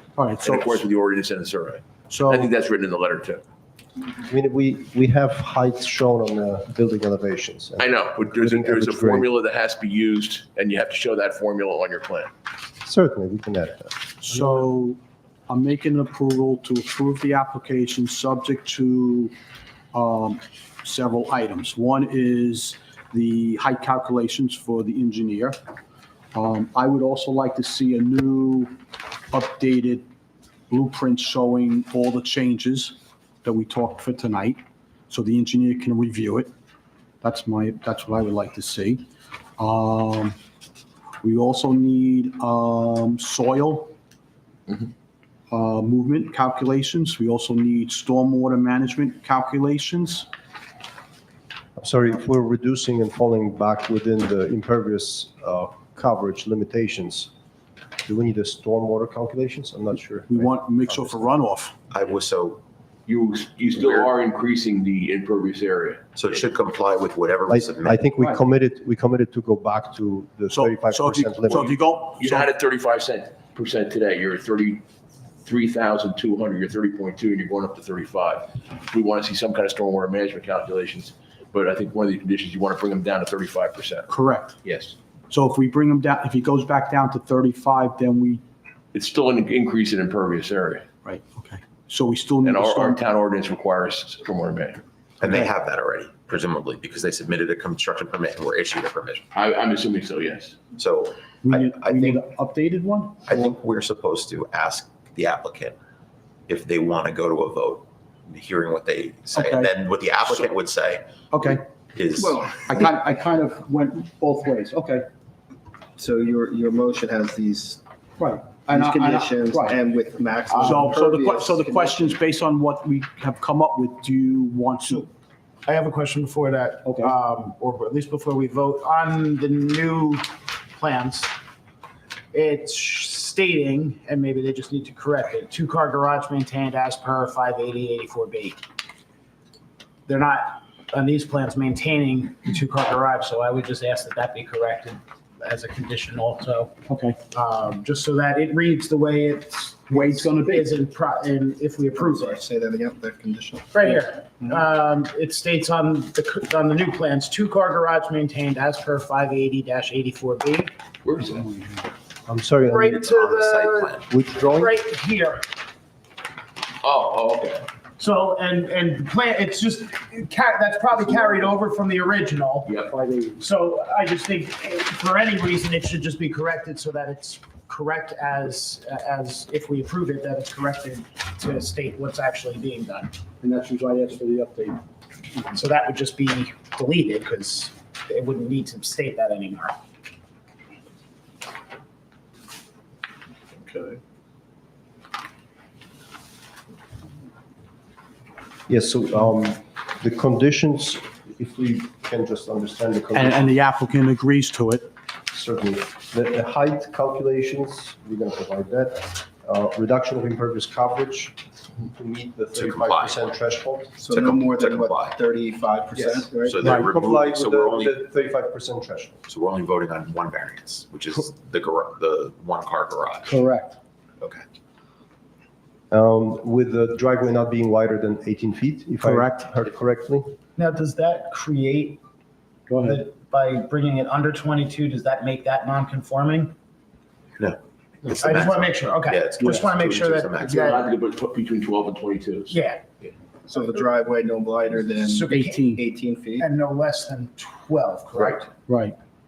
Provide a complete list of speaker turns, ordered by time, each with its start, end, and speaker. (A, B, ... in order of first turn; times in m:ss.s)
0:00.2-0:00.8 A
0:00.4-0:03.4 B
0:02.1-0:02.5 A
0:04.1-0:09.3 C
0:07.8-0:12.3 B
0:12.8-0:14.1 C
0:14.2-0:19.3 A
0:19.9-0:25.6 A
0:26.3-0:28.7 A
0:29.3-0:30.0 A
0:30.7-0:36.5 A
0:37.2-0:39.0 A
0:39.6-0:40.4 A
0:41.2-0:43.9 A
0:45.5-0:50.3 A
0:51.8-0:57.3 C
0:58.0-1:01.4 C
1:00.3-1:01.8 A
1:01.9-1:02.6 D
1:03.1-1:06.0 B
1:06.2-1:08.1 D
1:07.5-1:11.7 C
1:10.5-1:12.5 A
1:12.2-1:14.8 B
1:15.4-1:24.1 B
1:24.1-1:24.6 A
1:24.6-1:24.9 B
1:25.3-1:28.4 A
1:28.9-1:30.9 B
1:31.0-1:33.0 A
1:32.4-1:34.8 B
1:35.2-1:39.2 D
1:39.3-1:40.6 B
1:40.8-1:42.2 D
1:41.4-1:43.4 A
1:43.2-1:45.8 D
1:46.5-1:52.5 D
1:49.3-1:49.7 A
1:51.3-1:51.6 A
1:52.2-1:52.6 E
1:52.7-1:55.0 A
1:56.0-1:57.8 E
1:58.2-1:59.8 A
1:58.7-2:02.1 E
2:00.4-2:05.1 A
2:05.6-2:11.3 F
2:06.8-2:07.1 A
2:12.3-2:18.6 F
2:20.0-2:26.7 F
2:26.9-2:27.2 A
2:27.3-2:32.4 F
2:29.9-2:30.7 A
2:31.9-2:33.8 E
2:33.7-2:40.7 F
2:41.0-2:41.5 B
2:42.3-2:43.0 C
2:42.6-2:45.4 F
2:42.8-2:44.0 D
2:44.1-2:44.7 C
2:46.8-2:47.7 B
2:48.0-2:52.7 F
2:51.1-2:51.4 A
2:52.7-2:52.9 B
2:52.8-2:53.4 A
2:53.4-3:03.2 F
3:03.4-3:04.8 A
3:05.5-3:09.8 F
3:13.6-3:14.0 B
3:18.7-3:23.5 C
3:23.1-3:24.9 A
3:25.3-3:31.4 C
3:31.9-3:33.9 C
3:32.5-3:33.2 D
3:34.0-3:36.7 E
3:34.0-3:35.2 D
3:36.0-3:39.2 C
3:36.4-3:38.0 D
3:39.3-3:43.4 D
3:43.3-3:43.8 A
3:45.9-3:50.3 C
3:49.0-3:49.4 A
3:50.6-3:52.0 F
3:52.7-3:53.0 A
3:52.8-3:56.5 F
3:57.4-4:00.8 D
3:58.0-4:00.8 F
4:00.4-4:02.6 B
4:02.5-4:02.8 F
4:03.5-4:06.4 E
4:05.0-4:05.7 F
4:05.3-4:05.8 A
4:06.4-4:08.5 F
4:08.7-4:08.9 A